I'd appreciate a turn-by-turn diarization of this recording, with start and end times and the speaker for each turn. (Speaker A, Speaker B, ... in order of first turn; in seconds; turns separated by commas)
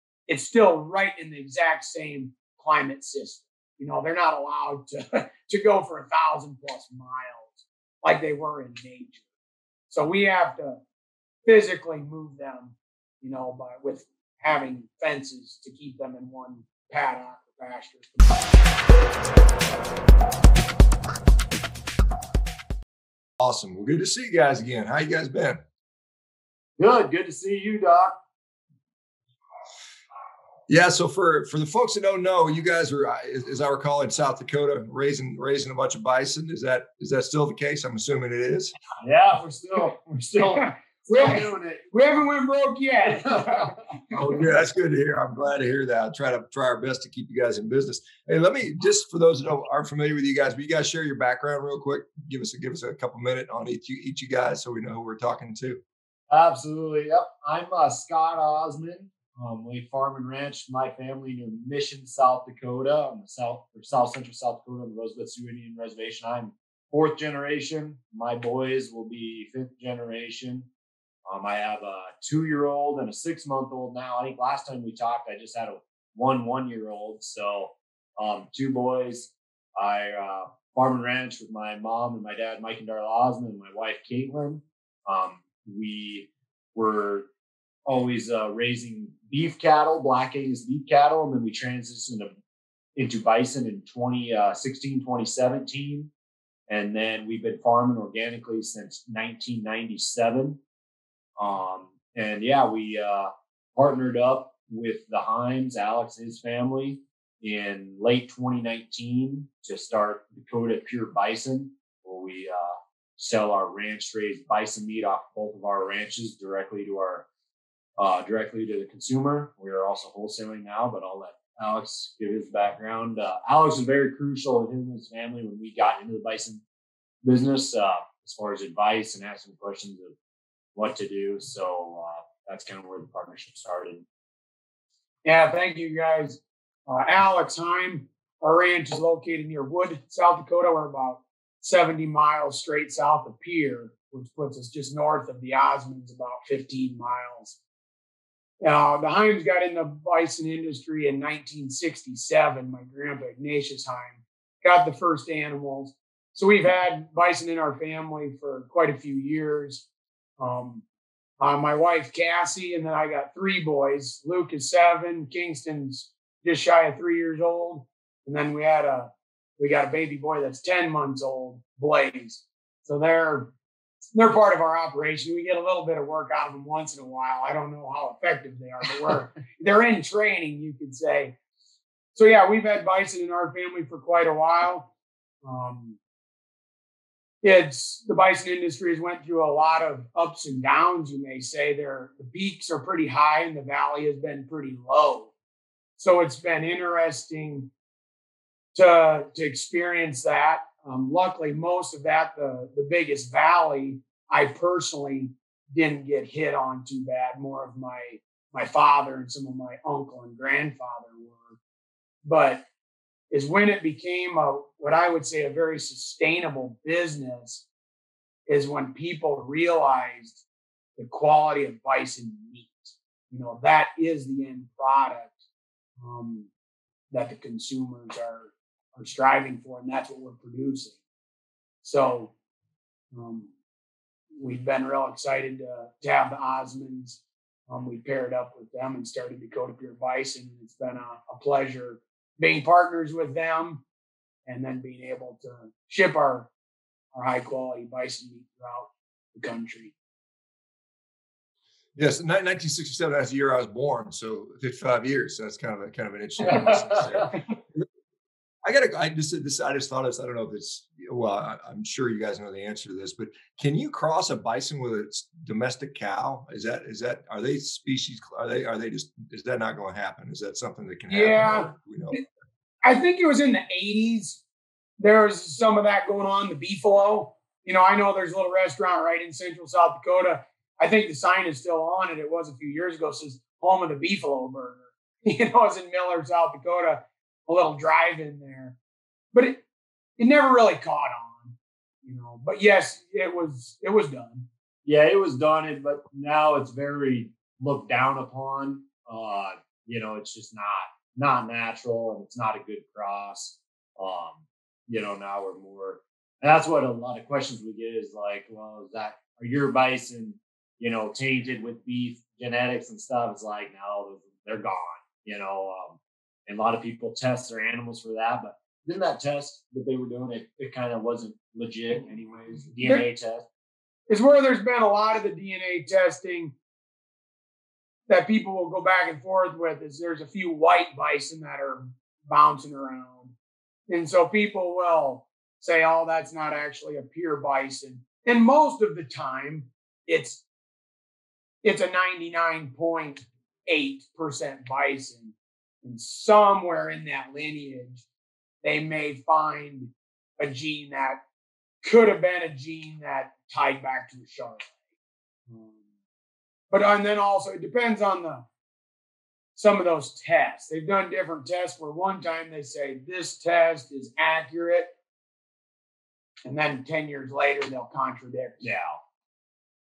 Speaker A: 0.3-9.2, Speaker A: 9.9-10.8, Speaker A: 11.4-18.3, Speaker B: 23.4-25.6, Speaker C: 26.8-28.2, Speaker B: 30.7-38.7, Speaker C: 39.0-41.9, Speaker A: 40.5-43.8, Speaker C: 43.2-43.7, Speaker B: 44.1-55.8, Speaker C: 56.3-70.7, Speaker C: 71.3-87.3, Speaker C: 87.9-92.3, Speaker C: 93.0-96.1, Speaker C: 96.7-100.6, Speaker C: 101.4-117.2, Speaker C: 118.0-126.6, Speaker C: 127.2-130.1, Speaker C: 130.8-134.1, Speaker A: 135.2-147.6, Speaker A: 148.6-159.8, Speaker A: 160.4-160.8, Speaker A: 161.4-173.5, Speaker A: 174.1-181.4, Speaker A: 182.1-184.9, Speaker A: 185.4-186.0, Speaker A: 187.4-195.3, Speaker A: 196.0-197.7, Speaker A: 198.7-211.6, Speaker A: 212.2-212.6, Speaker A: 213.3-217.7, Speaker A: 218.5-220.4, Speaker A: 221.0-225.4, Speaker A: 226.0-226.5, Speaker A: 227.1-231.0, Speaker A: 231.8-232.3, Speaker A: 233.1-233.5, Speaker A: 234.4-243.8, Speaker A: 244.5-246.5, Speaker A: 247.1-249.9, Speaker B: 251.9-257.9, Speaker C: 256.5-257.3, Speaker B: 258.6-272.2, Speaker A: 271.1-272.2, Speaker A: 272.8-274.4, Speaker A: 275.0-288.8, Speaker A: 289.3-289.6, Speaker A: 290.2-294.5, Speaker C: 294.9-323.4, Speaker A: 324.1-326.5, Speaker A: 328.1-333.3, Speaker A: 333.9-340.4, Speaker A: 341.6-348.1, Speaker A: 348.6-351.2, Speaker A: 351.8-354.7, Speaker A: 355.5-355.8, Speaker A: 356.7-358.4, Speaker A: 359.6-364.9, Speaker A: 366.4-368.7, Speaker C: 368.6-369.0